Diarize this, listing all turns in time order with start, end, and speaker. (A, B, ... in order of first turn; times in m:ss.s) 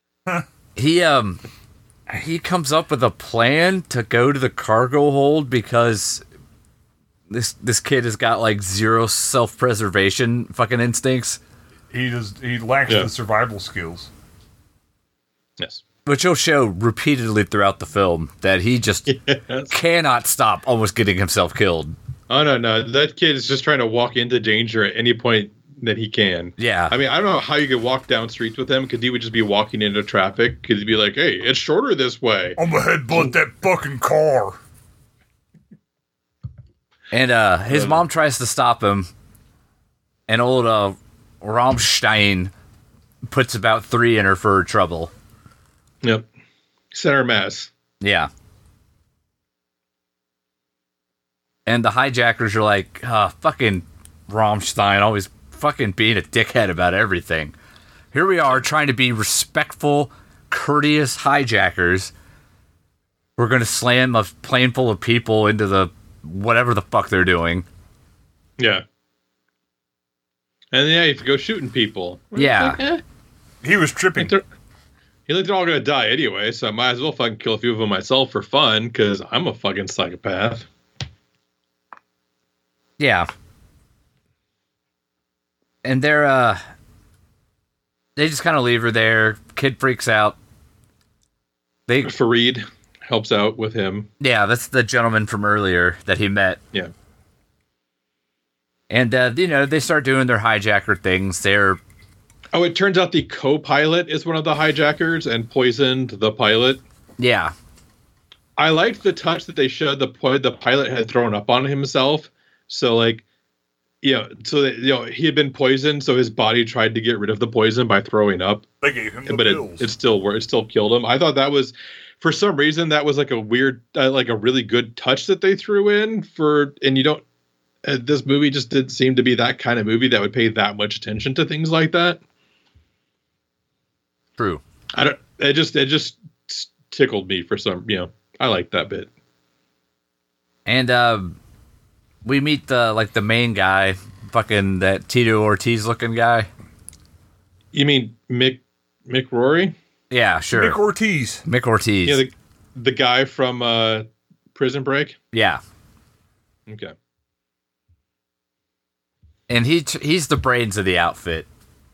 0:00.8-0:01.4 A
0:02.1-0:06.2 A
0:07.3-0:11.4 A
0:11.9-0:14.1 B
0:16.1-0:19.1 A
0:19.1-0:19.7 C
0:19.7-0:22.0 A
0:22.3-0:32.6 C
0:26.6-0:27.0 A
0:32.6-0:34.6 B
0:37.1-0:39.1 A
0:37.7-0:38.0 C
0:40.3-0:42.5 A
0:43.3-0:45.1 A
0:46.9-0:47.7 C
0:48.0-0:48.3 A
0:51.7-0:57.5 A
0:58.1-1:02.1 A
1:03.4-1:07.7 A
1:08.6-1:08.8 C
1:10.7-1:13.0 C
1:12.4-1:12.8 A
1:13.6-1:14.3 B
1:14.2-1:14.4 C
1:15.3-1:20.7 C
1:23.0-1:23.3 A
1:25.8-1:26.6 A
1:28.2-1:30.4 A
1:31.9-1:32.1 A
1:32.0-1:34.1 C
1:34.2-1:36.6 A
1:38.9-1:41.8 A
1:42.5-1:46.8 C
1:47.2-1:47.5 A
1:48.6-1:53.2 C
1:54.0-1:58.6 C
1:58.8-1:59.9 B
1:59.3-2:07.2 C
2:07.8-2:12.2 C
2:14.4-2:14.6 A
2:15.0-2:19.1 C
2:20.7-2:21.4 A
2:22.2-2:26.5 A
2:27.7-2:29.7 C
2:30.1-2:30.8 A
2:30.5-2:31.4 B
2:31.4-2:32.2 A
2:32.0-2:35.2 C
2:35.3-2:35.6 A
2:36.7-2:36.9 C
2:39.5-2:41.5 A